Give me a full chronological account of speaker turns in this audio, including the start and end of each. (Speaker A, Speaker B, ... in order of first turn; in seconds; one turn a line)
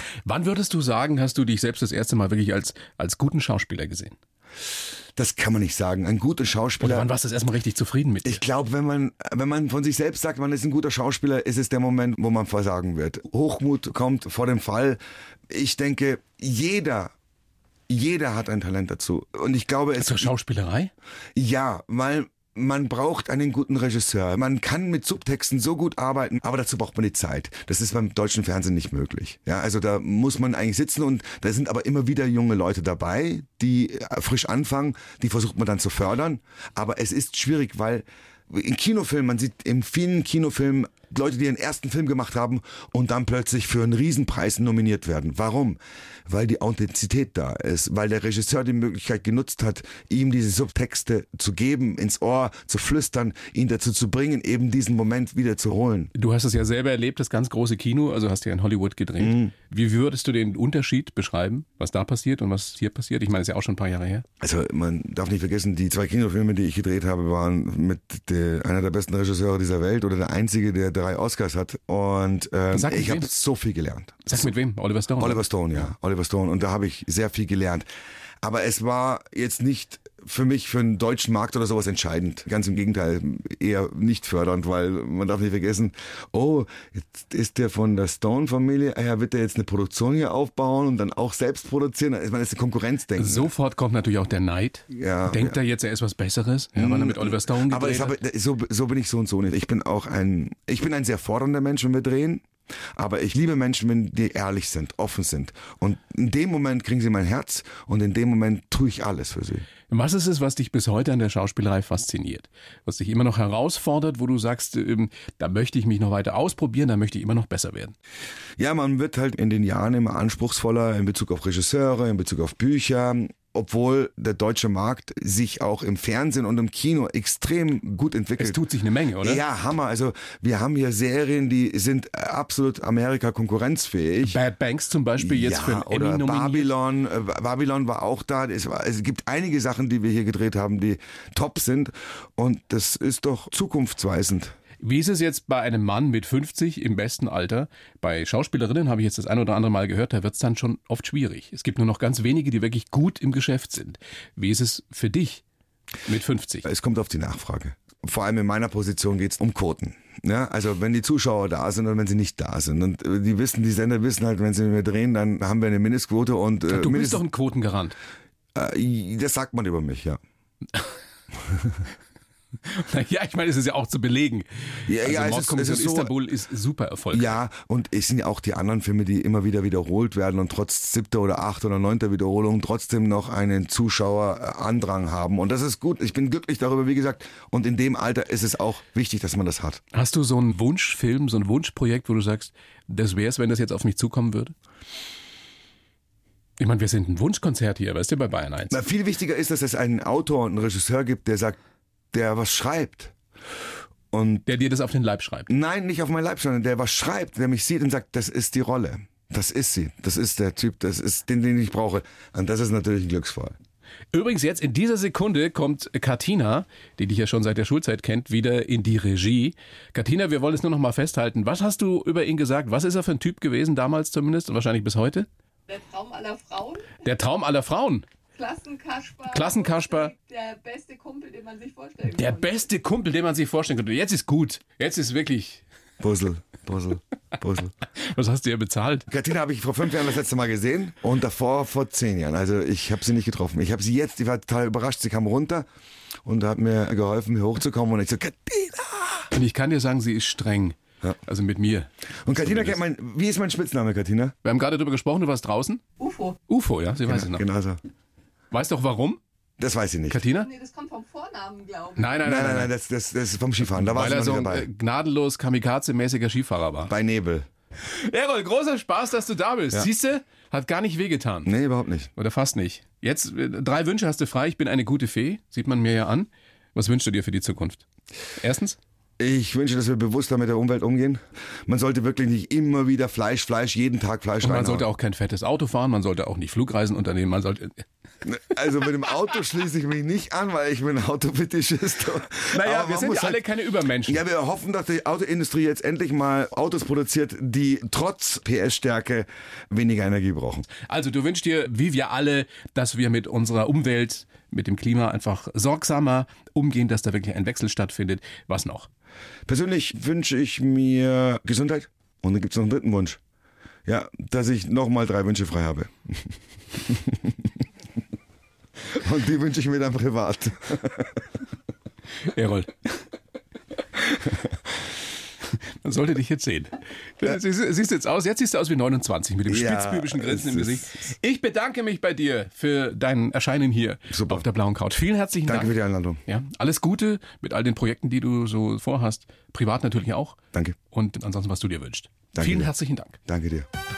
Speaker A: 0.2-4.2
Speaker B: 5.2-7.1
Speaker A: 6.8-8.4
Speaker B: 8.2-17.1
Speaker B: 17.9-20.3
Speaker A: 20.0-20.9
Speaker B: 21.3-56.1
Speaker A: 56.1-64.2
Speaker B: 59.2-59.5
Speaker B: 64.4-74.5
Speaker A: 72.7-73.3
Speaker A: 74.2-75.4
Speaker B: 75.2-77.9
Speaker B: 78.4-93.5
Speaker A: 93.2-98.2
Speaker B: 94.9-95.6
Speaker B: 96.8-109.7
Speaker A: 109.9-117.9
Speaker B: 118.6-128.6
Speaker A: 128.4-129.4
Speaker B: 129.2-134.4
Speaker A: 134.2-136.7
Speaker B: 135.2-144.5
Speaker A: 144.8-155.4
Speaker A: 156.0-156.7
Speaker B: 156.6-167.2
Speaker A: 166.7-167.9
Speaker B: 168.5-170.2
Speaker B: 171.5-171.7
Speaker A: 172.6-177.4
Speaker B: 174.9-176.1
Speaker B: 177.1-189.8
Speaker A: 189.9-194.5
Speaker A: 196.6-198.8
Speaker B: 198.7-201.6
Speaker B: 202.1-203.1
Speaker B: 204.1-204.4
Speaker A: 204.4-205.5
Speaker B: 205.5-213.6
Speaker A: 214.1-225.3
Speaker C: 225.7-227.0
Speaker A: 227.0-228.1
Speaker C: 228.3-232.7
Speaker A: 229.3-230.1
Speaker A: 232.1-235.6
Speaker B: 236.0-237.7
Speaker A: 237.9-239.1
Speaker B: 239.1-245.6
Speaker B: 246.2-249.3
Speaker A: 249.3-252.8
Speaker B: 252.2-254.3
Speaker A: 254.4-255.8
Speaker C: 256.0-256.4
Speaker A: 256.5-257.4
Speaker B: 257.1-257.8
Speaker A: 258.5-259.2
Speaker B: 259.6-260.2
Speaker A: 260.1-260.5
Speaker C: 260.4-262.2
Speaker A: 261.9-262.7
Speaker B: 262.2-264.7
Speaker A: 263.6-266.9
Speaker B: 266.9-267.5
Speaker A: 267.8-271.5
Speaker B: 271.4-272.1
Speaker A: 272.1-277.9
Speaker A: 278.4-278.8
Speaker B: 279.2-284.9
Speaker A: 284.4-287.9
Speaker B: 288.2-293.4
Speaker A: 292.5-294.2
Speaker B: 294.0-300.7
Speaker A: 300.8-308.9
Speaker B: 309.5-313.2
Speaker B: 313.9-317.4
Speaker B: 318.8-321.2
Speaker A: 322.2-323.0
Speaker A: 325.5-335.7
Speaker B: 329.5-331.0
Speaker B: 334.1-334.4
Speaker B: 335.4-336.2
Speaker A: 336.3-343.2
Speaker B: 342.3-342.7
Speaker B: 343.2-343.7